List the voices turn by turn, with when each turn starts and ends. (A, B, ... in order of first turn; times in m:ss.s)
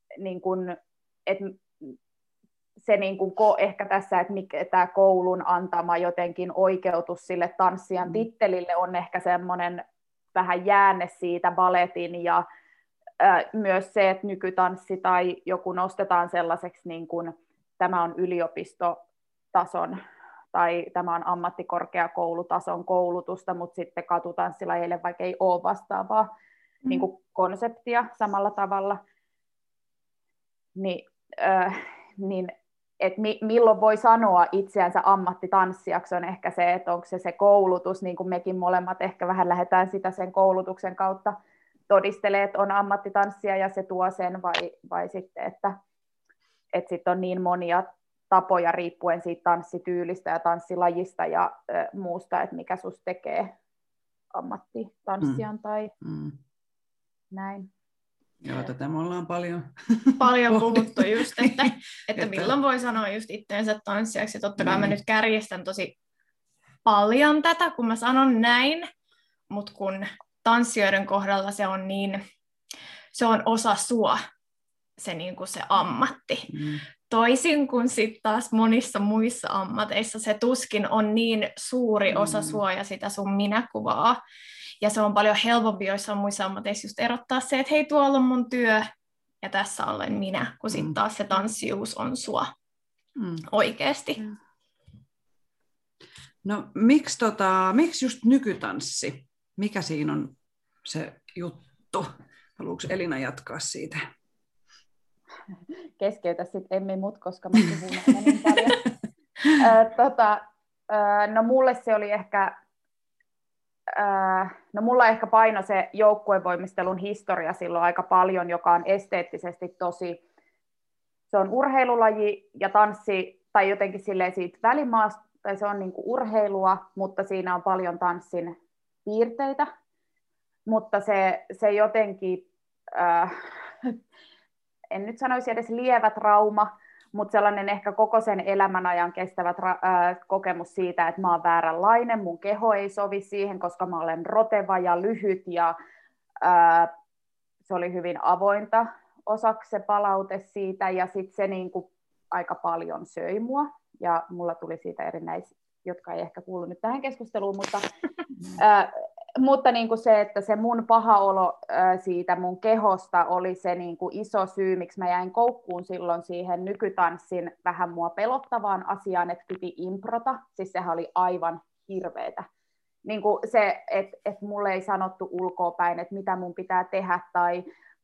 0:00.2-0:01.9 A
0:02.8-0:09.8 A
0:10.4-0:12.4 A
0:13.2-0:19.0 A
0:19.5-0:20.0 A
0:20.5-0:26.3 A
0:26.9-0:29.0 A
0:30.8-0:41.4 A
0:41.9-0:45.8 A
0:46.7-0:53.5 A
0:54.3-0:55.9 A
0:56.0-0:56.4 B
0:57.3-0:57.7 A
0:58.4-1:02.6 B
1:00.2-1:05.9 C
1:04.6-1:05.0 B
1:06.9-1:08.9 C
1:09.5-1:12.2 C
1:13.1-1:14.2 C
1:15.0-1:16.5 C
1:16.5-1:16.8 B
1:17.1-1:24.2 C
1:22.1-1:22.6 B
1:24.8-1:28.9 C
1:29.4-1:32.5 C
1:33.2-1:33.5 B
1:33.5-1:34.2 C
1:36.4-1:44.0 B
1:46.0-1:48.8 A
1:49.5-1:52.5 A
1:54.0-2:00.2 A
2:01.3-2:08.6 A
2:09.1-2:09.7 A
2:10.7-2:13.9 A
2:14.9-2:25.7 A
2:26.4-2:26.9 A
2:27.6-2:37.9 A
2:38.6-2:52.5 A
2:53.0-2:57.6 A